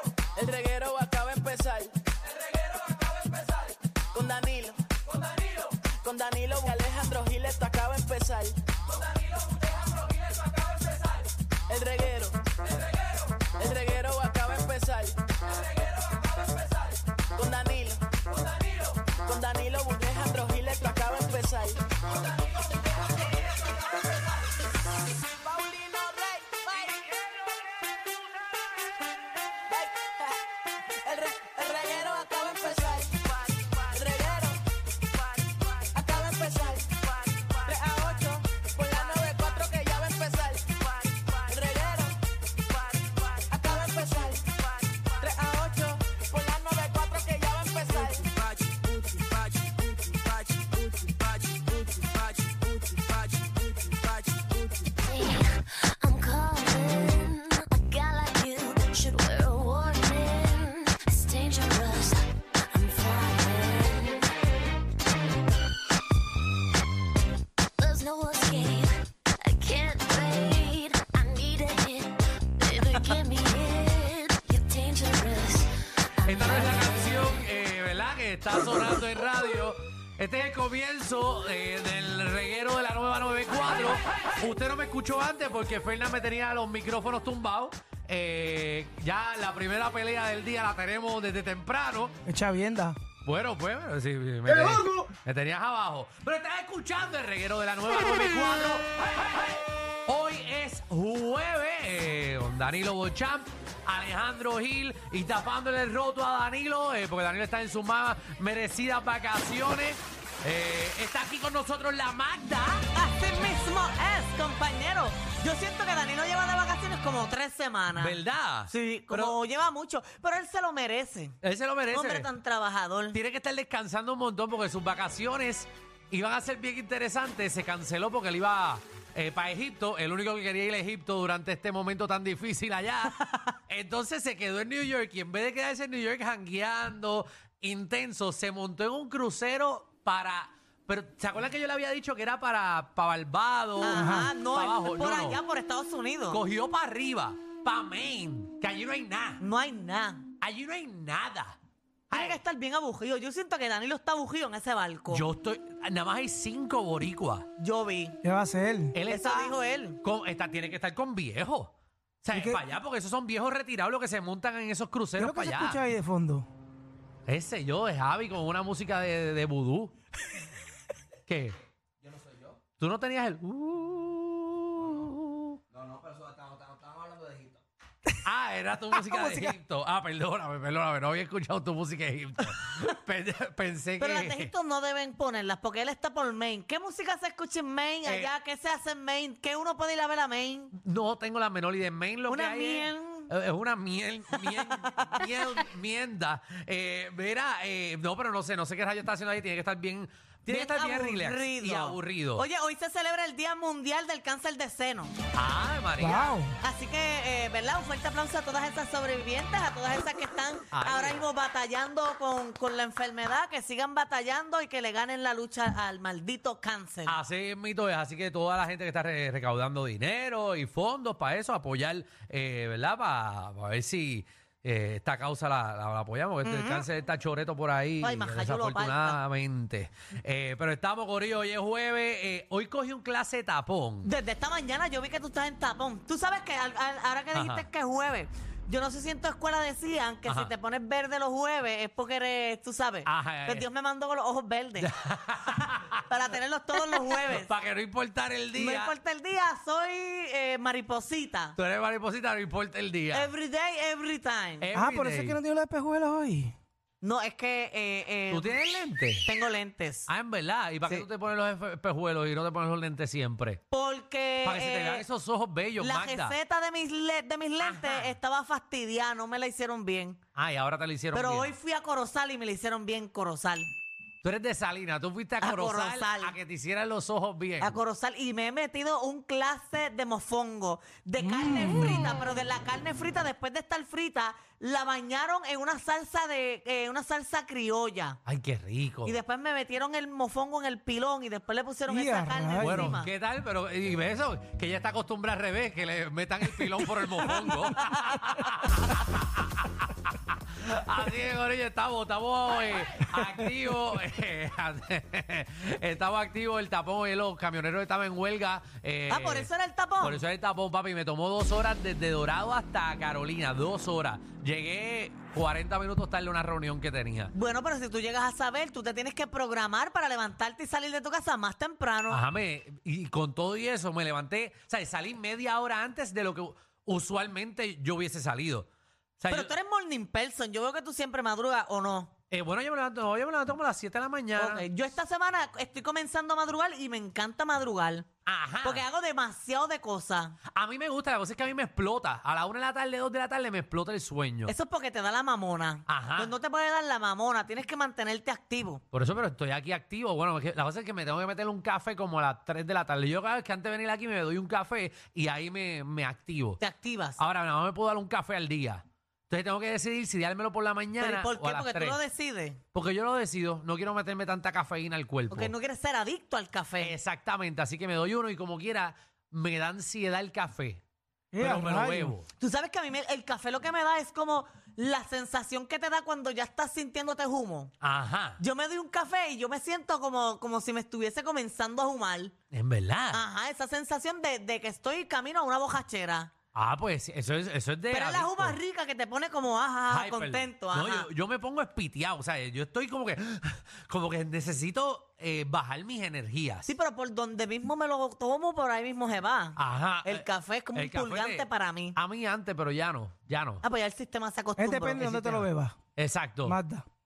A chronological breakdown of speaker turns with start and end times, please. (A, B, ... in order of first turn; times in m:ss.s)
0:00.4-0:01.9 A
0:04.1-0:04.8 A
0:06.0-0:08.6 A
0:11.7-0:12.5 A
0:13.6-0:15.4 A
0:17.4-0:18.1 A
0:19.2-0:21.8 A
0:25.4-0:27.4 A
0:29.7-0:30.4 A
0:31.0-0:34.6 A
0:35.8-0:42.2 A
0:42.9-0:54.5 A
0:55.1-1:04.4 B
1:07.8-1:15.7 B
1:16.2-1:17.0 B
1:16.2-1:32.2 C
1:32.3-1:33.0 D
1:33.2-1:52.9 C
1:52.9-2:01.4 E
1:58.0-1:59.4 C
2:01.4-2:02.3 C
2:01.9-2:03.2 E
2:03.1-2:25.4 C
2:23.8-2:26.4 E
2:23.8-2:24.3 D
2:26.3-2:29.4 C
2:29.4-2:30.2 E
2:30.4-2:31.6 C
2:32.1-2:32.4 C
2:32.1-2:35.3 E
2:35.1-2:37.5 C
2:37.6-2:38.2 E
2:38.2-2:39.0 D
2:38.9-2:41.7 C
2:39.1-2:40.0 E
2:42.2-2:45.8 C
2:42.3-2:42.6 D
2:45.2-2:46.5 D
2:47.3-2:49.9 C
2:51.3-2:51.6 C
2:52.8-2:55.6 C
2:58.2-3:04.5 C
3:04.0-3:10.7 E
3:08.0-3:08.3 C
3:10.8-3:22.4 C
3:12.3-3:13.3 E
3:14.4-3:15.6 E
3:20.5-3:25.2 E
3:25.3-3:26.3 C
3:26.0-3:26.6 D
3:26.6-3:37.2 E
3:30.7-3:31.3 C
3:37.1-3:54.1 C
3:46.4-3:46.9 E
3:48.0-3:49.2 E
3:54.0-4:04.9 E
3:57.3-3:57.7 C
4:00.3-4:00.5 C
4:03.0-4:03.7 C
4:04.8-4:06.0 C
4:06.1-4:07.5 E
4:06.8-4:08.9 C
4:08.6-4:11.6 E
4:11.6-4:13.3 C
4:13.1-4:14.7 E
4:14.6-4:15.4 C
4:14.7-4:16.6 D
4:17.0-4:18.6 E
4:18.3-4:19.3 C
4:19.2-4:20.1 E
4:20.1-4:23.6 C
4:23.7-4:25.0 E
4:24.4-4:26.4 C
4:25.8-4:30.2 E
4:27.6-4:28.2 C
4:30.4-4:31.6 C
4:31.1-4:33.7 E
4:34.2-4:37.8 C
4:35.4-4:36.4 E
4:37.6-4:48.2 E
4:41.4-4:41.9 D
4:48.3-4:49.2 C
4:49.0-4:53.1 E
4:51.9-4:53.0 D
4:52.6-5:09.5 C
5:09.1-5:10.2 E
5:10.0-5:17.3 C
5:17.3-5:22.2 E
5:22.1-5:28.7 C
5:29.2-5:29.5 C
5:29.3-5:32.1 E
5:32.3-5:34.6 C
5:34.4-5:38.1 E
5:38.3-5:38.8 C
5:38.6-5:40.4 E
5:40.5-5:44.5 C
5:44.5-5:48.8 E
5:45.9-5:46.3 C
5:48.9-5:56.6 C
5:56.6-5:57.2 E
5:57.2-6:02.0 C
6:01.0-6:02.6 E
6:02.7-6:05.5 C
6:05.3-6:07.0 E
6:06.8-6:10.8 C
6:11.3-6:12.1 D
6:11.4-6:12.3 C
6:12.4-6:17.7 E
6:17.8-6:18.4 C
6:18.4-6:22.3 E
6:22.5-6:23.2 C
6:23.1-6:26.3 E
6:26.5-6:28.6 C
6:27.9-6:31.1 E
6:29.9-6:36.7 C
6:36.7-6:42.0 E
6:39.6-6:43.6 C
6:43.6-6:45.4 E
6:44.6-6:45.8 D
6:45.0-6:46.6 C
6:46.4-6:46.9 D